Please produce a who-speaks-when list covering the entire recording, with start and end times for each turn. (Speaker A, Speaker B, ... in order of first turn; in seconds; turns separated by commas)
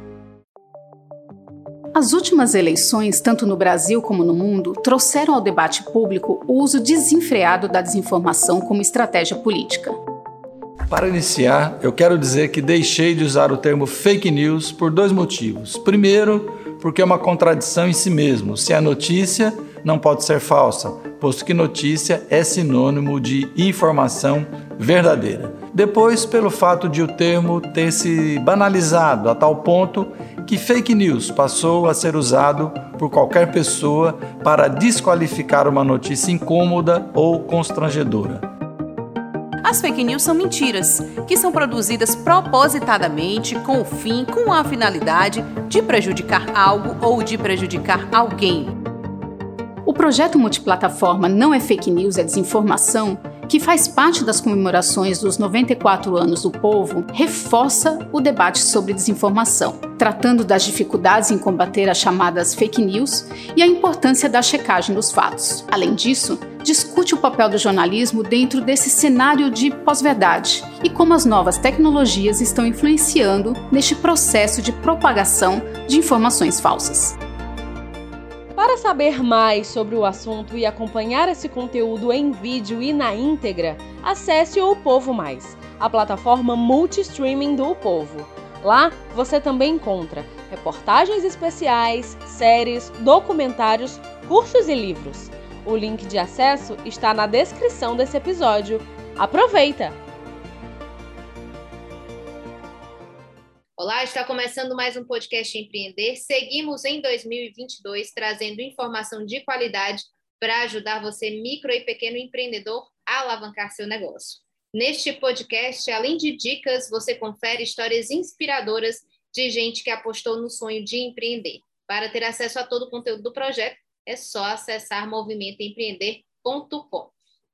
Speaker A: 1.9-10.0, Speaker B: 10.9-38.5, Speaker C: 39.6-48.8, Speaker A: 49.9-77.2, Speaker D: 78.5-100.0, Speaker E: 103.8-127.1